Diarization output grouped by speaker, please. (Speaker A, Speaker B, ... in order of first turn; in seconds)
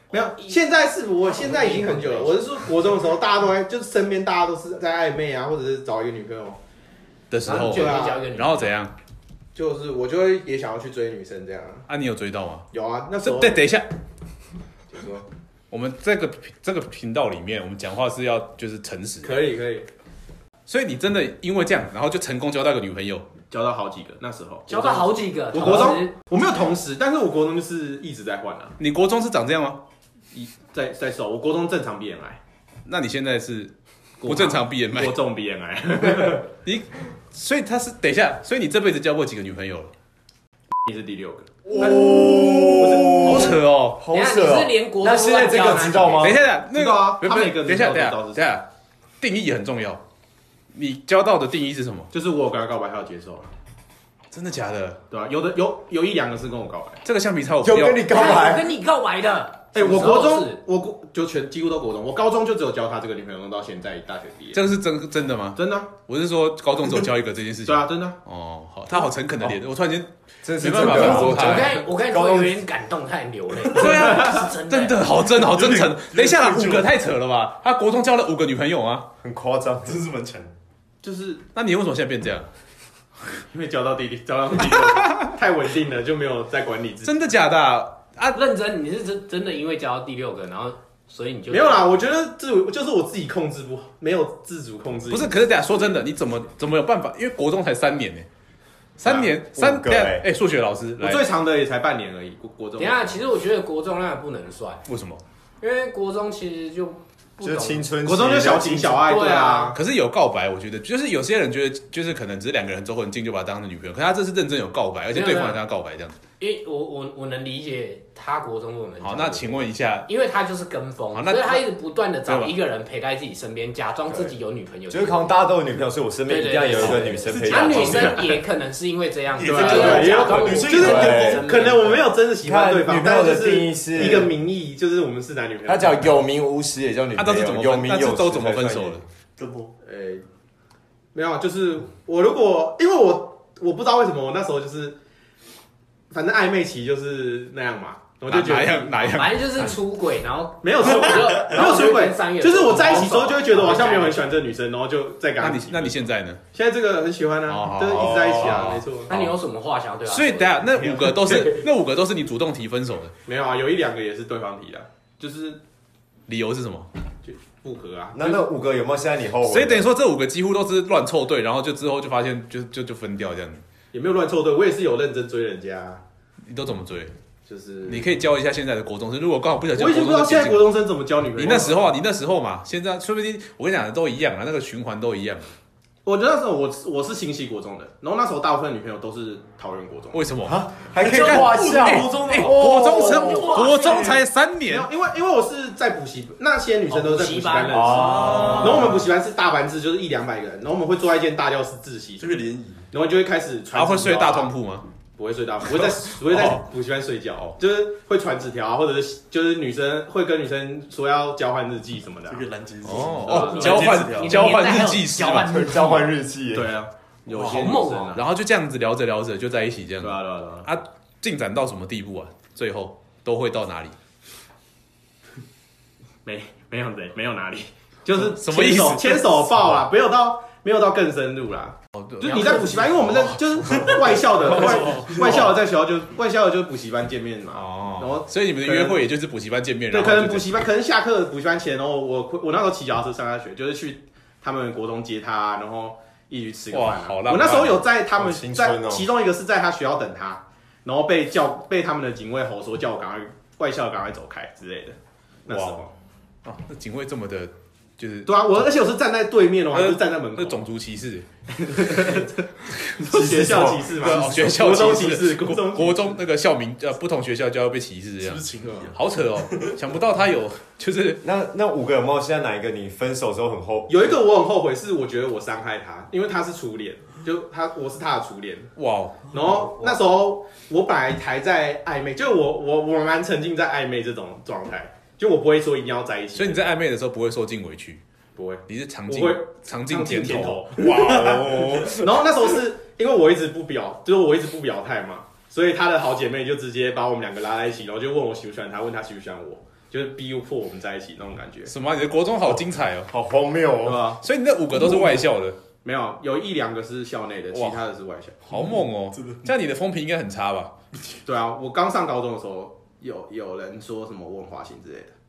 Speaker A: 0.1-6.6, 7.5-8.2, 9.5-11.9, 12.7-13.6, 14.9-15.2, 19.2-19.9, 23.5-28.7, 30.3-32.4, 34.2-36.5, 40.8-43.6, 46.7-48.4, 52.1-53.5, 55.1-57.0, 59.7-64.6, 65.5-65.9, 67.6-68.2, 81.0-81.4, 83.5-87.1, 91.5-95.4, 99.0-99.3, 101.0-103.2, 108.0-109.8, 129.4-136.2, 139.8-140.2, 141.1-145.0, 146.1-149.1, 150.6-156.0, 156.5-159.1, 163.2-165.6, 167.2-168.4, 173.9-176.0, 177.5-178.1, 179.7-181.9, 186.0-190.2, 194.7-202.4, 202.9-204.5, 205.2-212.5, 213.2-213.9, 216.5-218.2, 220.0-220.7, 226.2-239.0, 239.9-255.9, 258.2-260.6, 261.6-266.2, 268.6-268.9, 273.9-278.7, 279.3-286.6, 288.4-301.7, 303.8-304.2, 304.8-305.2, 305.8-308.4, 311.2-315.1
Speaker B: 1.2-2.4, 7.4-8.7, 24.7-26.1, 44.1-46.3, 58.1-60.6, 70.9-75.0, 88.3-92.0, 102.8-104.8, 105.6-107.8, 109.0-109.8, 115.1-115.6, 116.4-125.3, 126.3-132.1, 149.1-154.2, 159.1-161.6, 192.9-194.2, 196.9-198.6, 213.2-216.0, 217.4-218.2
Speaker C: 7.3-8.9, 11.9-12.7, 13.2-13.9, 15.7-19.5, 20.7-23.3, 28.8-29.8, 32.8-35.2, 36.3-39.9, 43.1-44.0, 46.2-48.7, 49.2-50.0, 50.7-52.1, 54.3-55.0, 57.0-58.2, 64.5-71.8, 73.7-79.1, 81.5-82.5, 87.0-88.4, 95.1-98.3, 99.0-101.2, 104.9-105.2, 109.7-116.2, 119.0-120.1, 121.1-121.7, 122.2-122.5, 137.2-139.0, 148.3-149.8, 155.4-156.4, 157.5-159.3, 160.1-163.1, 166.3-166.9, 169.4-173.6, 176.5-177.1, 177.8-180.8, 181.3-185.5, 190.1-194.9, 198.1-198.9, 203.7-204.8, 205.7-206.6, 212.8-215.6, 217.3-223.9, 228.2-229.4, 231.9-235.6, 237.5-240.6, 246.7-247.8, 255.5-255.8, 256.4-258.7, 259.7-261.2, 261.8-262.2, 263.9-271.2, 278.8-279.3, 286.3-288.0, 288.7-291.9, 301.6-303.1, 304.2-305.6, 307.5-307.8, 308.4-310.7
Speaker D: 41.7-46.4, 57.6-58.7, 70.4-72.6, 79.2-80.0, 99.4-100.3, 107.4-109.1, 124.9-128.2, 129.9-131.4, 132.4-134.3, 135.7-139.0, 157.9-158.4, 168.1-169.9, 190.4-193.5, 197.7-199.0, 215.4-216.7, 248.2-249.1, 263.0-264.0, 271.2-274.1, 290.8-291.9, 303.1-304.1
Speaker E: 75.5-76.9, 79.9-80.5, 127.2-128.3, 129.3-131.2, 139.4-139.7, 191.0-194.2, 202.2-202.8, 212.3-214.6, 268.2-269.7, 308.5-309.4